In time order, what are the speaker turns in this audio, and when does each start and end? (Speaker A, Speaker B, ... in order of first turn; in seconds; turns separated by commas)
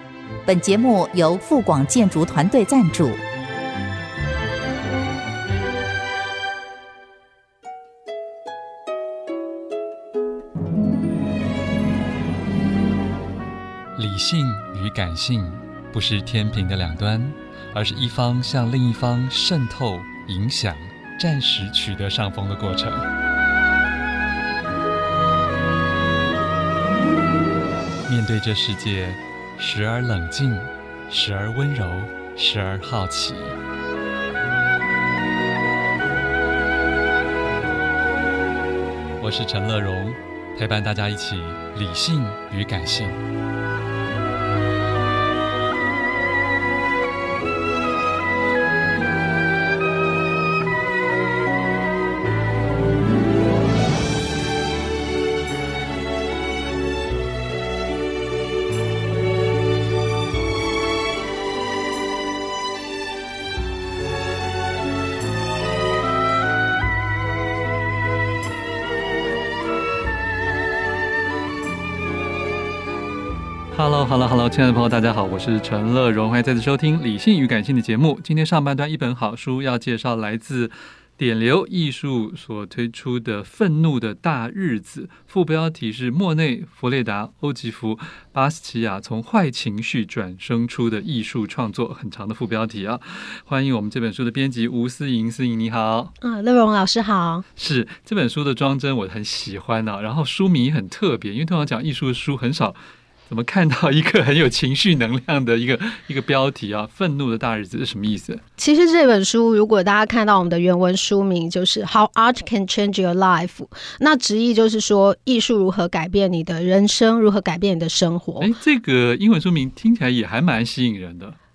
Speaker A: 0.5-3.2, Speaker B: 14.0-23.1, Speaker B: 28.1-33.6, Speaker B: 39.2-43.2, Speaker B: 73.7-96.1, Speaker C: 96.2-97.5, Speaker B: 97.6-102.8, Speaker B: 103.3-108.4, Speaker C: 108.6-118.5, Speaker B: 118.4-121.4